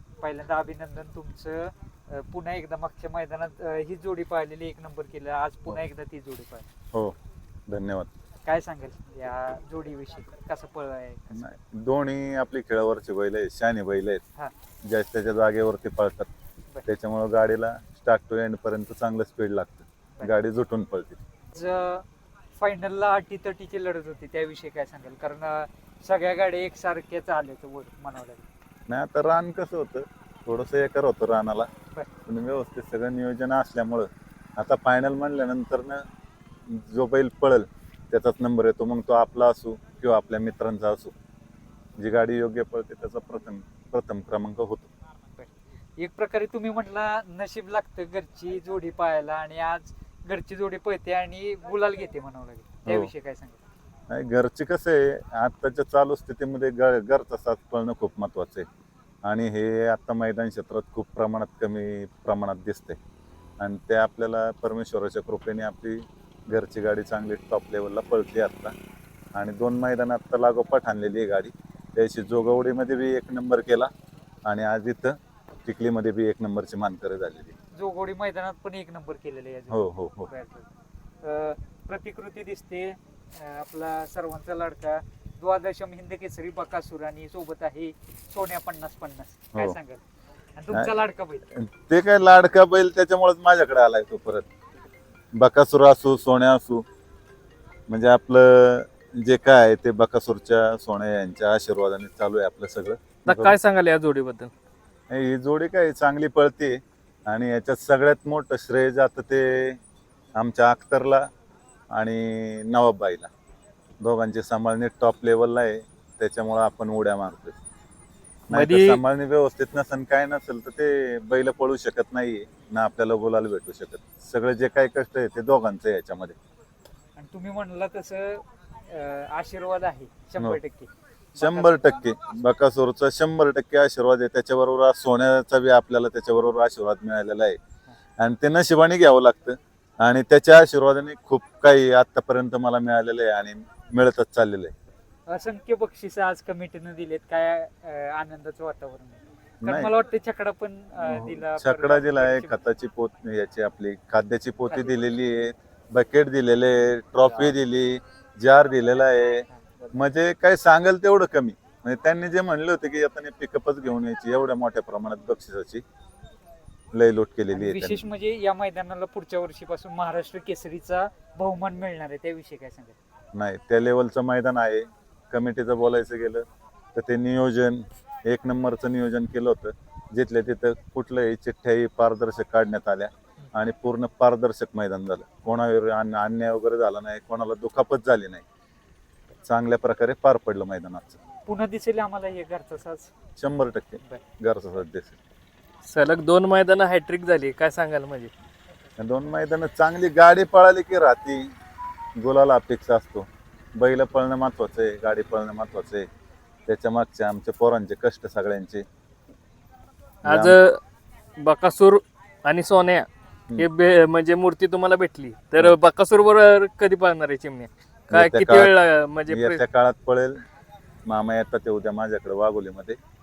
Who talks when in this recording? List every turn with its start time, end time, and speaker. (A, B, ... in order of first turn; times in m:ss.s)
0:00.2-0:06.7 A
0:07.7-0:08.1 B
0:08.4-0:11.4 A
0:11.4-0:14.2 B
0:14.8-0:16.3 B
0:16.8-0:21.2 B
0:21.5-0:28.5 A
0:28.9-0:31.7 B
0:32.3-0:36.0 B
0:36.7-0:41.1 B
0:42.0-0:44.9 B
0:45.4-0:53.6 A
0:52.9-0:53.1 B
0:54.1-0:58.7 B
0:59.2-1:03.0 B
1:03.6-1:08.8 B
1:09.4-1:13.9 B
1:14.4-1:17.5 B
1:17.7-1:20.7 A
1:19.7-1:20.3 B
1:21.2-1:30.0 A
1:30.6-1:31.5 A
1:31.6-1:34.5 B
1:35.4-1:36.8 B
1:37.9-1:43.6 B
1:43.2-1:44.5 C
1:45.1-1:49.8 B
1:50.4-1:51.3 B
1:51.9-1:53.3 B
1:54.0-1:57.6 B
1:58.5-2:06.4 B
1:58.5-1:59.0 C
2:07.2-2:11.9 A
2:11.4-2:17.6 B
2:18.2-2:24.7 B
2:25.3-2:32.5 A
2:29.6-2:29.9 B
2:31.0-2:45.8 B
2:46.9-2:48.0 B
2:47.5-2:53.0 A
2:53.3-3:08.4 B
3:09.4-3:11.2 B
3:11.5-3:13.1 A
3:13.4-3:15.2 B
3:15.9-3:18.3 C
3:19.0-3:21.5 B
3:22.2-3:26.1 B
3:26.7-3:28.8 B
3:30.2-3:30.6 B
3:30.2-3:30.8 C
3:31.4-3:39.6 C
3:38.1-3:38.7 B
3:39.3-3:40.4 B
3:41.1-3:43.0 B